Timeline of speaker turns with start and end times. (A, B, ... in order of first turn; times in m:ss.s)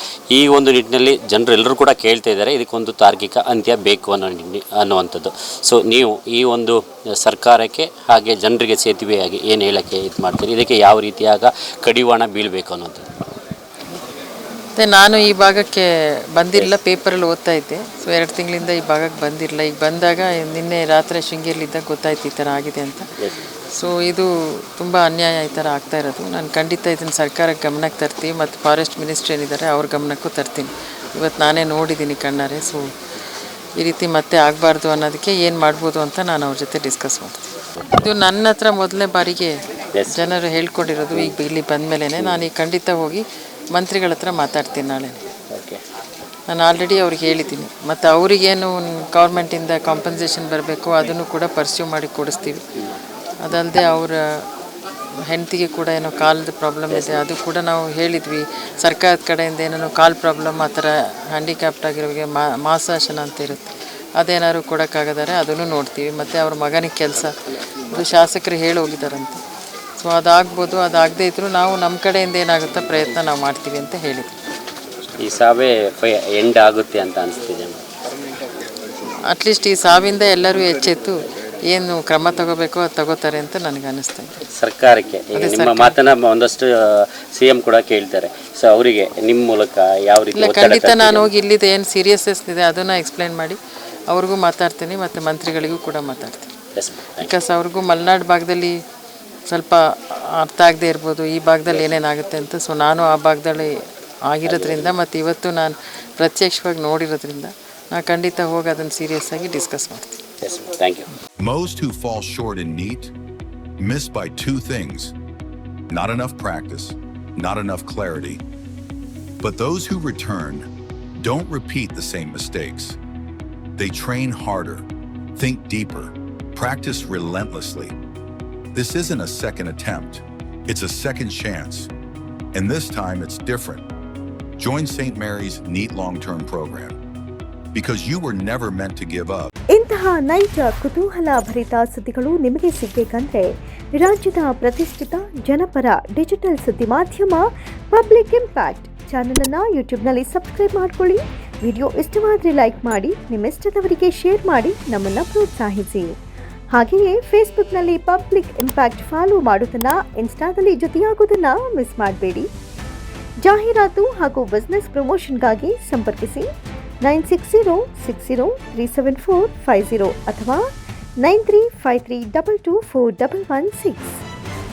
0:00.3-0:13.0 A
0:14.8-0:23.1 B
0:23.2-0:23.5 A
0:23.7-0:32.9 B
0:33.8-0:39.6 B
0:39.9-0:40.2 A
0:40.1-0:45.2 B
0:42.2-0:42.5 A
0:45.5-0:45.8 A
0:46.5-0:52.6 B
0:53.4-0:54.5 B
0:55.3-1:07.4 B
0:56.9-0:57.3 A
1:07.9-1:09.4 B
1:10.0-1:14.4 B
1:15.2-1:17.8 A
1:19.3-1:24.4 B
1:24.5-1:31.3 A
1:25.4-1:26.0 B
1:30.3-1:33.6 B
1:34.1-1:36.5 B
1:36.8-1:37.3 A
1:37.2-1:38.8 B
1:39.5-1:43.8 B
1:44.3-1:50.1 B
1:44.4-1:45.0 A
1:50.4-1:51.1 A
1:51.4-1:53.1 C
1:53.8-1:55.1 C
1:55.9-1:58.4 C
1:59.4-2:03.0 C
2:03.8-2:08.0 C
2:08.7-2:11.9 C
2:12.5-2:13.9 C
2:14.6-2:17.0 C
2:17.7-2:19.5 C
2:19.7-2:36.1 D
2:36.7-2:42.5 D
2:43.4-2:46.5 D
2:47.0-2:50.6 D
2:51.2-2:54.2 D